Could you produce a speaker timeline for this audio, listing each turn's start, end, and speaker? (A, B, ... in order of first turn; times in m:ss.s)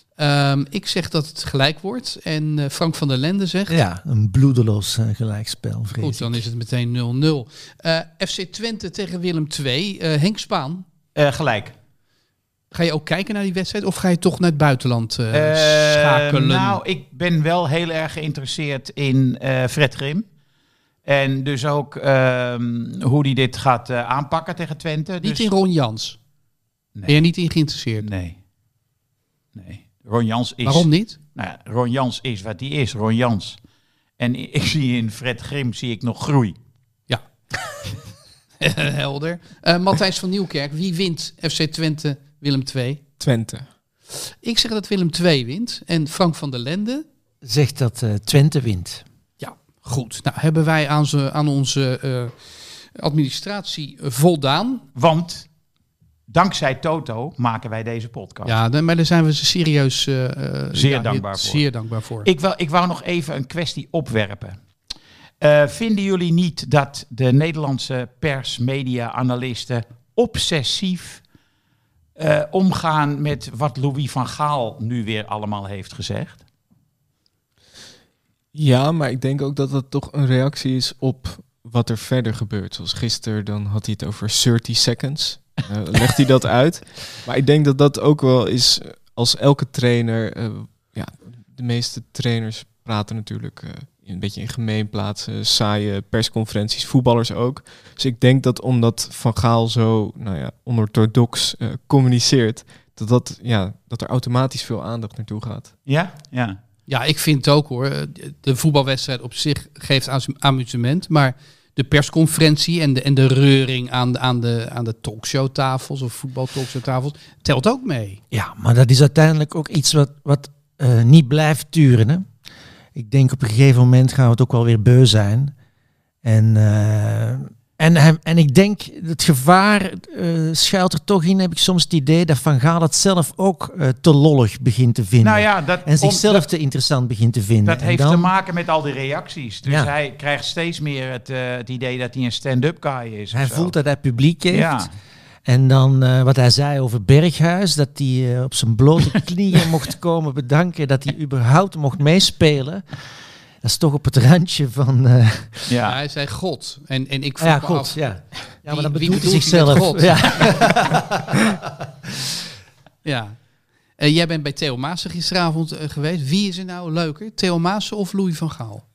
0:00.2-0:03.8 A
0:03.7-0:06.5 B
0:06.0-0:10.8 A
0:11.2-0:11.7 C
0:12.7-0:16.8 A
0:15.3-0:20.3 C
0:21.0-0:25.5 C
0:25.2-0:26.2 A
0:27.0-0:27.3 C
0:27.1-0:28.1 A
0:28.0-0:28.4 C
0:29.6-0:33.6 C
0:30.6-0:31.2 A
0:34.2-0:36.6 C
0:38.6-0:43.0 A
0:43.2-0:43.7 D
0:44.4-0:47.0 A
0:47.4-0:49.0 B
0:49.4-0:54.9 A
0:55.0-0:55.5 C
0:56.3-0:58.6 C
0:58.5-1:02.3 A
1:00.7-1:01.7 C
1:02.2-1:04.6 C
1:05.4-1:11.2 C
1:12.2-1:16.4 C
1:18.5-1:45.8 D
1:45.9-1:46.6 C
1:46.9-1:58.2 A
1:58.3-2:02.3 B
2:03.0-2:05.5 B
2:06.2-2:18.3 B
2:15.2-2:16.4 C
2:17.6-2:23.7 C
2:19.7-2:19.9 B
2:23.3-2:24.9 B
2:24.5-2:24.9 C
2:25.4-2:35.7 B
2:35.7-2:36.0 C
2:35.9-2:40.7 A
2:37.4-2:41.0 B
2:43.0-2:48.9 A